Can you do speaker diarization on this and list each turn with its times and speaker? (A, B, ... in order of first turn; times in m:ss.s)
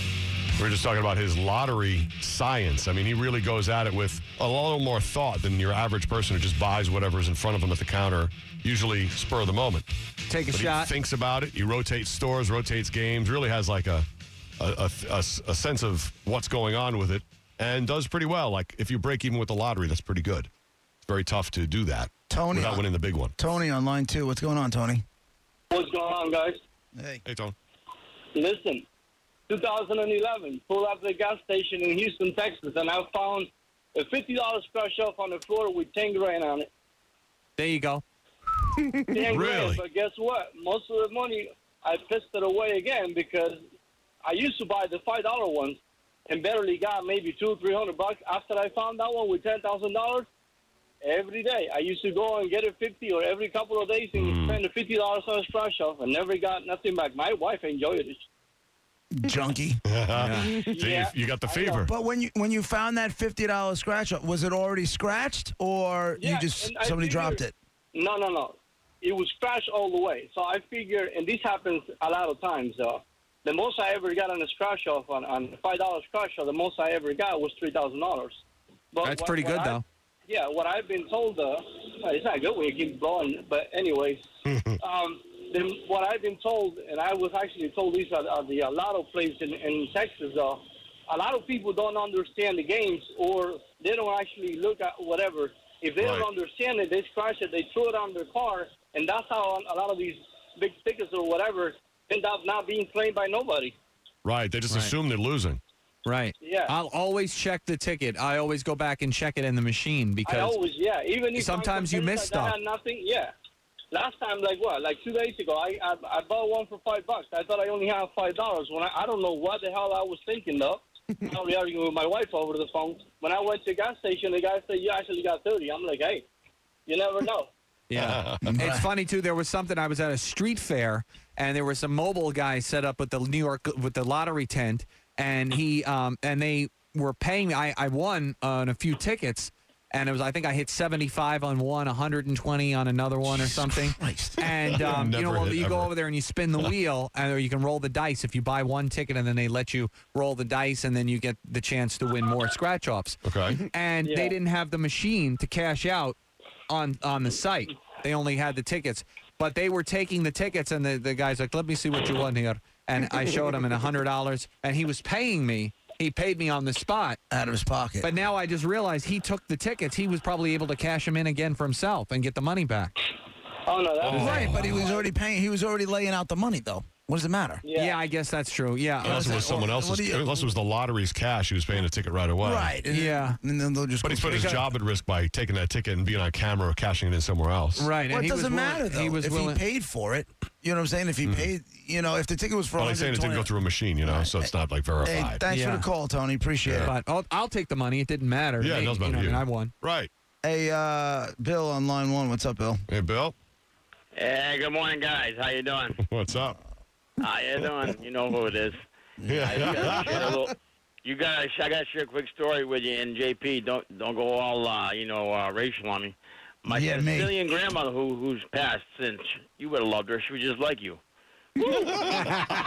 0:00.6-0:09.9 A
0:10.3-0:10.9 B
0:10.5-0:14.1 A
0:14.6-0:20.5 A
0:21.0-0:23.3 A
0:22.3-0:22.8 C
0:23.4-0:25.0 C
0:25.7-0:26.6 D
0:27.0-0:27.2 C
0:27.3-0:27.6 A
0:28.3-0:28.8 D
0:29.5-0:36.7 D
0:37.6-0:38.0 B
0:39.1-0:43.6 D
0:39.2-0:39.8 A
0:44.2-0:50.3 D
0:51.0-0:58.2 D
0:54.1-0:54.6 A
0:59.1-0:59.8 C
0:59.8-1:01.9 A
1:00.1-1:00.5 B
1:00.5-1:01.9 D
1:01.8-1:07.6 C
1:06.2-1:07.4 D
1:07.9-1:24.2 D
1:19.0-1:19.8 B
1:24.5-1:24.8 A
1:24.8-1:43.8 D
1:36.0-1:36.3 A
1:44.2-1:45.6 A
1:46.0-1:50.6 B
1:46.4-1:46.7 D
1:50.2-1:53.3 D
1:51.3-1:52.6 B
1:53.9-2:06.3 D
2:06.9-2:07.5 D
2:07.9-2:36.2 B
2:08.0-2:08.5 A
2:08.4-2:08.9 C
2:23.4-2:24.4 C
2:24.7-2:25.9 A
2:33.2-2:33.6 A
2:34.0-2:34.4 D
2:36.7-2:47.2 B
2:47.3-2:48.1 C
2:48.0-2:52.9 B
2:53.7-2:55.0 D
2:54.0-2:54.9 A
2:54.1-2:54.8 B
2:54.1-2:57.6 C
2:57.6-2:58.0 D
2:57.8-2:59.6 B
2:59.0-3:02.7 A
2:59.0-3:00.5 C
3:02.4-3:04.7 C
3:02.9-3:03.4 B
3:04.0-3:07.9 A
3:04.3-3:04.6 B
3:07.8-3:09.6 B
3:08.1-3:13.5 C
3:12.8-3:15.4 A
3:14.0-3:16.9 C
3:15.5-3:15.9 B
3:16.7-3:16.9 A
3:16.8-3:19.7 B
3:18.6-3:20.1 A
3:20.4-3:22.8 C
3:22.9-3:23.3 A
3:24.2-3:26.0 E
3:26.0-3:26.6 A
3:27.2-3:28.8 E
3:29.2-3:30.4 C
3:29.3-3:30.3 A
3:29.5-3:41.0 E
3:36.7-3:37.4 C
3:41.6-3:42.3 E